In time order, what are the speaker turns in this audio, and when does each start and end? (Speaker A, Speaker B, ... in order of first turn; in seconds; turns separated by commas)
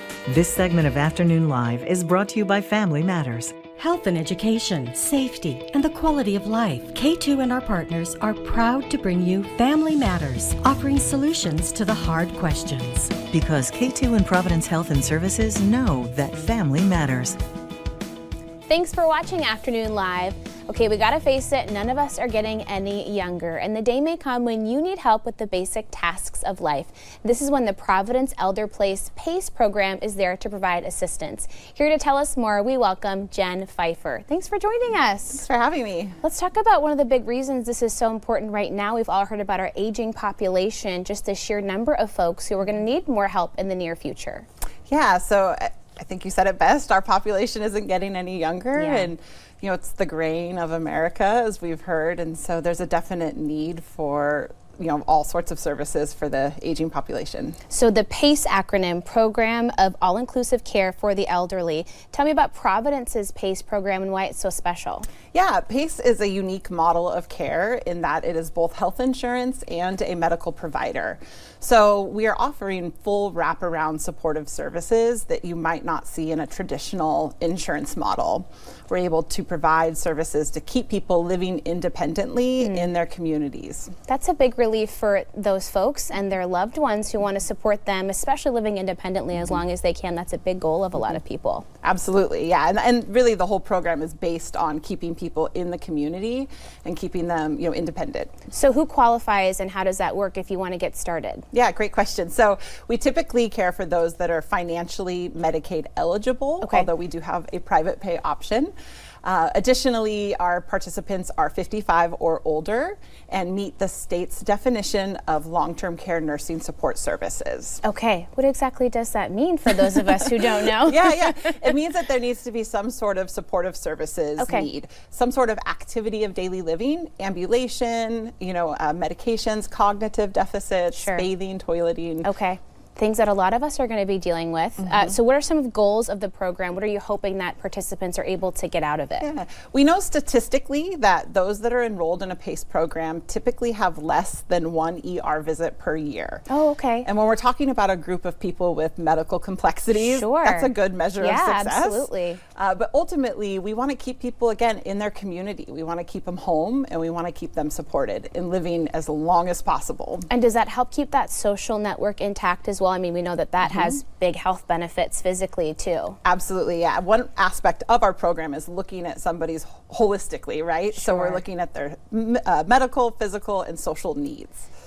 Speaker A: 0.3-3.5, Speaker B: 3.8-13.2, Speaker A: 13.3-17.4, Speaker C: 18.7-35.5, Speaker D: 35.3-36.2, Speaker C: 36.2-44.5, Speaker D: 44.9-57.6, Speaker C: 48.8-49.1, Speaker C: 57.7-65.1, Speaker D: 65.3-83.9, Speaker C: 82.6-82.9, Speaker C: 84.1-91.7, Speaker D: 91.8-98.4, Speaker C: 98.5-101.5, Speaker D: 101.5-108.7, Speaker C: 106.6-106.9, Speaker D: 109.2-117.8, Speaker C: 117.8-121.7, Speaker D: 119.9-132.3, Speaker C: 124.4-124.7, Speaker C: 130.9-131.3, Speaker C: 132.2-139.3, Speaker D: 134.8-135.2, Speaker D: 139.2-146.4, Speaker C: 146.5-147.1, Speaker D: 147.0-160.3, Speaker C: 149.9-152.4, Speaker C: 160.3-166.2, Speaker D: 163.6-164.0, Speaker D: 166.2-174.7, Speaker C: 170.9-171.4